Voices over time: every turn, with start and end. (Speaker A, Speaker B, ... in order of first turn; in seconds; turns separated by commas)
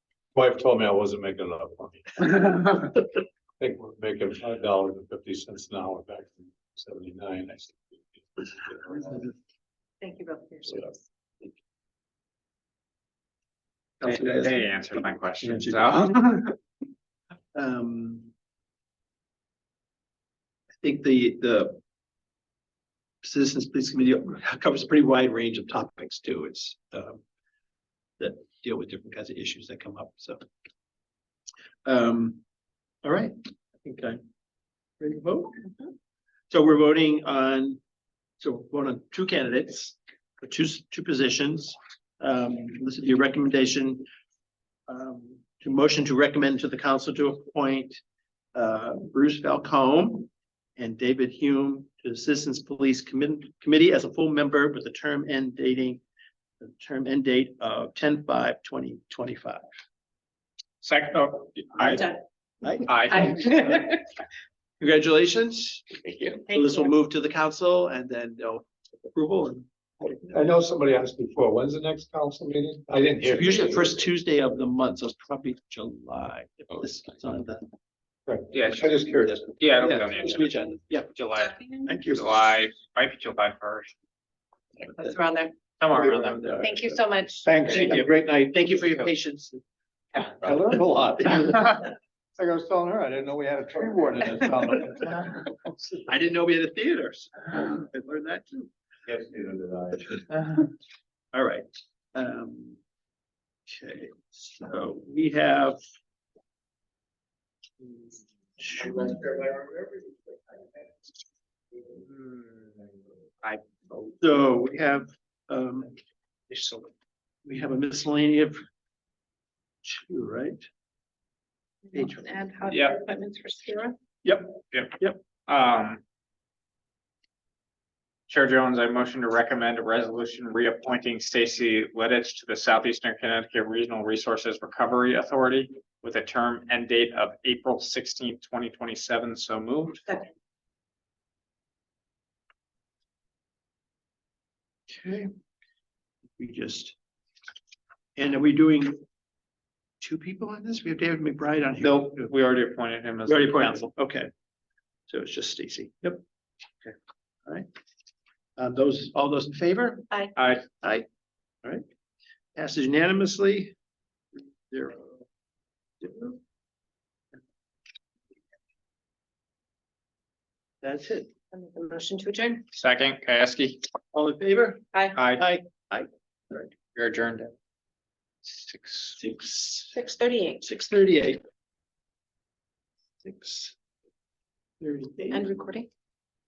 Speaker A: 0.3-3.0, Speaker A: 3.6-9.2, Speaker B: 10.0-11.0, Speaker C: 14.0-14.7, Speaker D: 14.0-16.5, Speaker C: 15.4-16.2, Speaker C: 17.5-18.3, Speaker C: 20.8-21.8, Speaker C: 23.2-27.2, Speaker C: 28.2-30.4, Speaker C: 31.8-32.4, Speaker C: 33.0-34.2, Speaker C: 35.0-35.6, Speaker C: 36.5-37.8, Speaker C: 38.4-44.0, Speaker C: 44.9-48.0, Speaker C: 48.5-56.0, Speaker C: 56.6-59.6, Speaker D: 60.8-62.1, Speaker B: 61.9-62.2, Speaker C: 62.6-64.0, Speaker D: 62.9-63.3, Speaker B: 63.2-64.0, Speaker C: 64.8-69.7, Speaker B: 66.5-66.8, Speaker A: 70.1-73.9, Speaker C: 73.2-77.7, Speaker A: 78.3-79.4, Speaker D: 78.5-78.9, Speaker C: 79.0-81.1, Speaker D: 79.6-80.5, Speaker D: 81.1-83.9, Speaker B: 81.4-81.9, Speaker C: 81.8-82.3, Speaker B: 84.8-85.5, Speaker D: 85.8-86.5, Speaker C: 85.9-86.9, Speaker B: 86.6-87.9, Speaker C: 87.4-89.6, Speaker D: 87.7-88.0, Speaker C: 90.3-91.7, Speaker A: 90.4-91.7, Speaker A: 92.4-95.5, Speaker C: 96.0-98.7, Speaker A: 99.1-100.0, Speaker C: 101.3-102.8, Speaker C: 103.7-105.8, Speaker C: 108.6-109.3, Speaker D: 111.9-112.7, Speaker D: 113.4-114.3, Speaker C: 114.2-116.0, Speaker C: 116.5-116.8, Speaker C: 117.4-118.6, Speaker C: 119.8-120.7, Speaker B: 121.9-124.0, Speaker C: 121.9-122.2, Speaker D: 122.7-123.0, Speaker C: 124.2-125.2, Speaker D: 124.7-126.0, Speaker D: 128.3-140.0, Speaker C: 144.9-145.3, Speaker C: 146.4-146.9, Speaker C: 148.2-149.0, Speaker C: 150.0-152.3, Speaker D: 151.8-153.9, Speaker C: 153.2-154.3, Speaker C: 155.1-156.2, Speaker C: 158.6-161.1, Speaker D: 160.3-160.6, Speaker C: 162.6-163.8, Speaker C: 164.4-165.2, Speaker C: 166.0-166.4, Speaker C: 170.8-171.3, Speaker B: 171.5-172.6, Speaker D: 172.7-173.8, Speaker C: 174.1-174.8, Speaker D: 175.1-175.4, Speaker C: 175.3-176.7, Speaker D: 176.9-177.5, Speaker D: 178.4-179.2, Speaker C: 179.2-180.0, Speaker B: 179.9-180.6, Speaker C: 180.6-181.4, Speaker C: 183.2-183.7, Speaker C: 184.8-185.5, Speaker B: 185.3-185.9